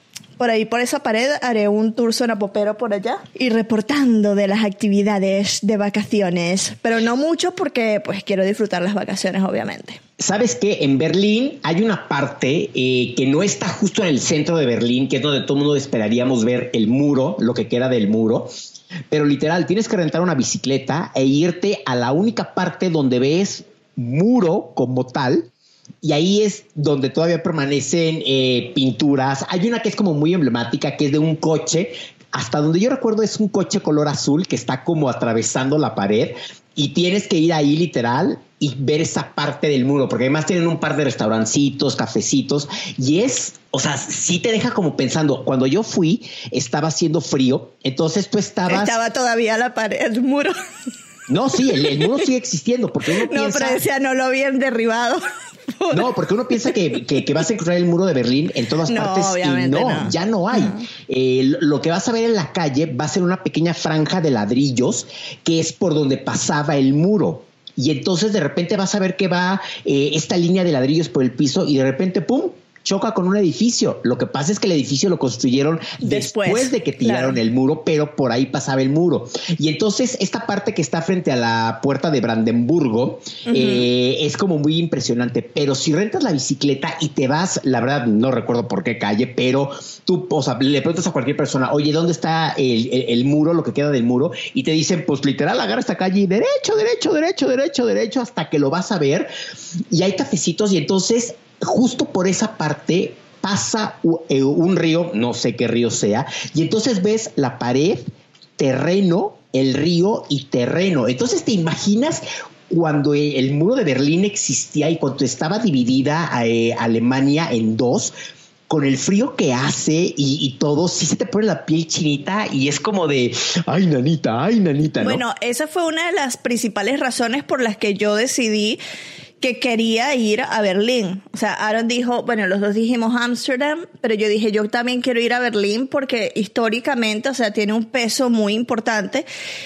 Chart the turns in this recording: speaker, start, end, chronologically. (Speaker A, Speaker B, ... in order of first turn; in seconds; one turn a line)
Speaker A: 0.4-10.0
Speaker B: 10.2-18.5
Speaker B: 19.1-25.5
Speaker B: 26.0-48.9
Speaker A: 48.7-50.5
Speaker B: 51.3-53.8
Speaker A: 53.2-55.2
Speaker A: 55.8-56.1
Speaker B: 55.9-99.3
Speaker A: 58.9-60.9
Speaker A: 76.0-77.4
Speaker A: 83.5-83.8
Speaker B: 99.9-108.1
Speaker B: 108.6-118.1
Speaker B: 118.7-125.2
Speaker A: 125.0-128.8
Speaker A: 129.4-139.3